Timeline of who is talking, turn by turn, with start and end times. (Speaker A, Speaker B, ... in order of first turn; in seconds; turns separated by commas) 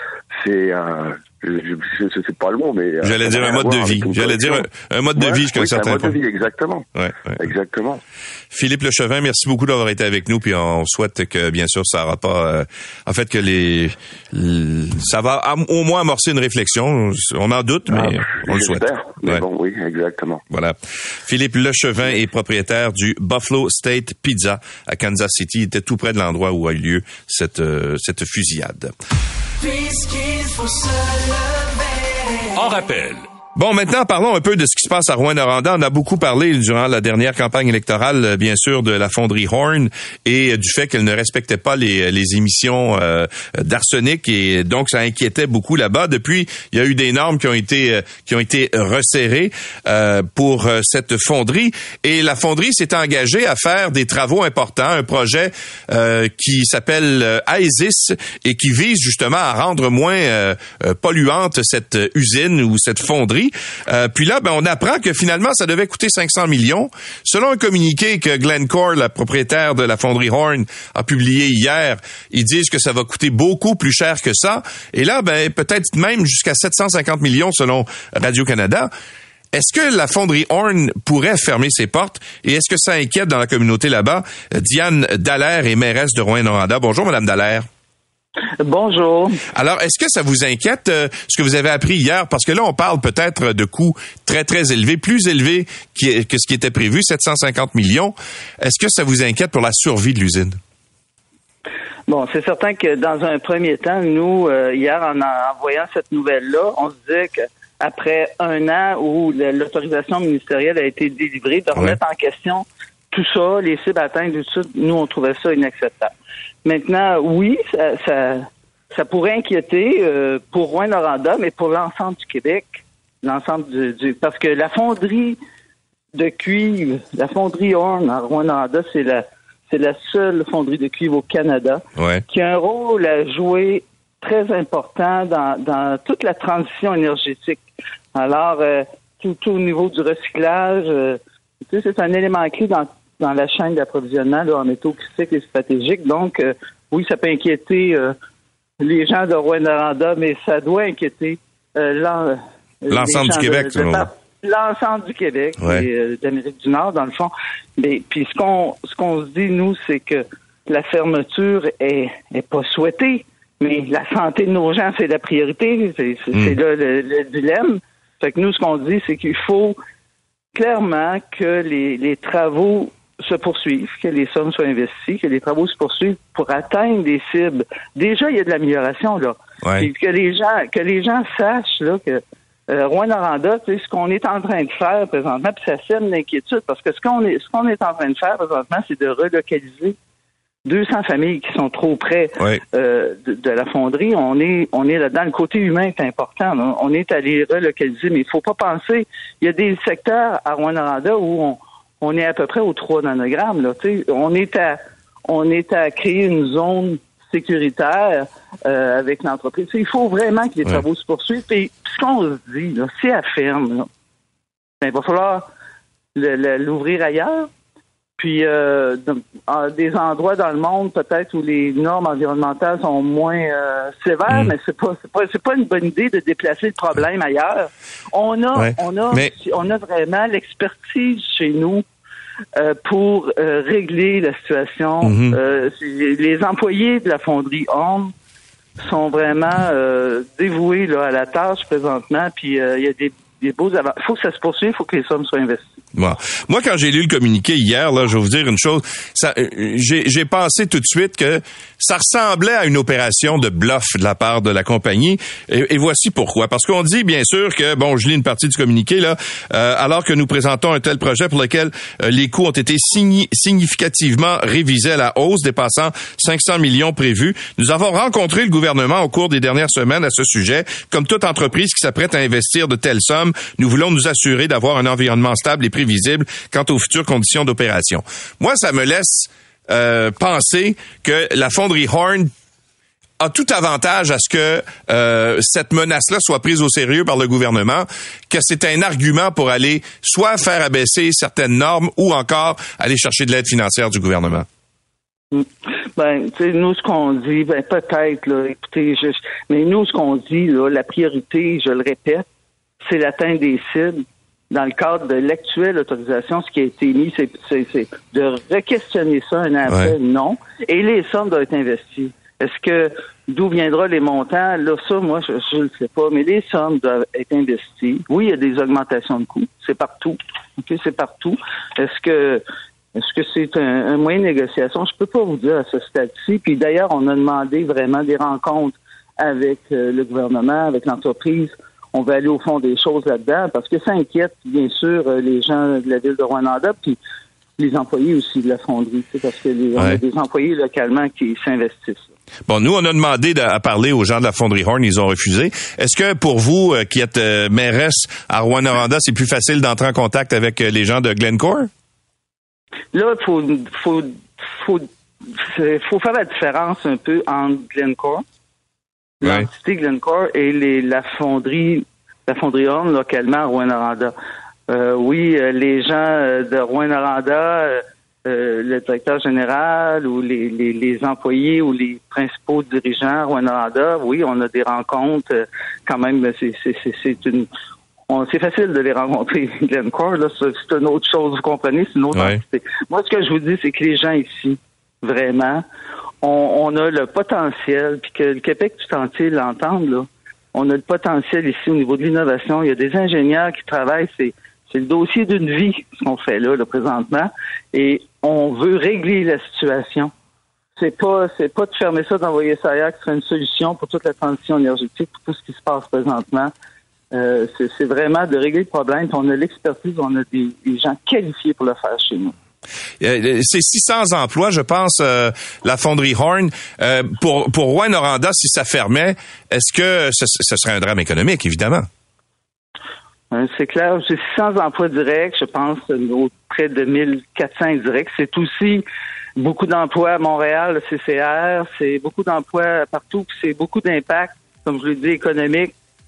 Speaker A: 0.3-6.8, Speaker B: 3.0-6.2, Speaker B: 7.0-7.4, Speaker A: 7.4-8.0, Speaker B: 8.5-19.4, Speaker A: 17.9-20.4, Speaker B: 20.5-28.9, Speaker C: 29.6-32.1, Speaker B: 33.5-78.9, Speaker B: 79.5-87.7, Speaker C: 88.6-89.4, Speaker B: 89.5-100.6, Speaker C: 102.1-116.1, Speaker C: 116.6-125.4, Speaker C: 126.1-137.6, Speaker B: 132.0-132.2, Speaker C: 138.1-148.1, Speaker C: 148.8-169.8, Speaker B: 152.9-154.1, Speaker C: 170.5-190.0, Speaker B: 179.6-179.9, Speaker C: 190.6-213.9, Speaker C: 214.8-215.5, Speaker C: 216.1-217.5, Speaker C: 218.2-231.8, Speaker B: 224.3-224.5, Speaker B: 228.6-229.3, Speaker C: 232.6-238.1, Speaker B: 235.0-235.4, Speaker C: 238.8-245.7, Speaker B: 245.9-282.3, Speaker B: 283.2-294.5, Speaker C: 295.3-302.2, Speaker C: 302.8-322.4, Speaker B: 309.7-309.9, Speaker C: 322.9-337.0, Speaker C: 337.6-342.1, Speaker B: 342.5-351.7, Speaker C: 352.9-358.2, Speaker C: 359.2-364.1, Speaker B: 359.2-359.5, Speaker C: 364.7-377.5, Speaker C: 378.1-385.6, Speaker B: 382.1-382.4, Speaker C: 386.2-400.1, Speaker C: 400.8-406.5, Speaker C: 407.1-412.4, Speaker B: 413.0-421.9, Speaker C: 423.3-428.8, Speaker C: 429.4-435.7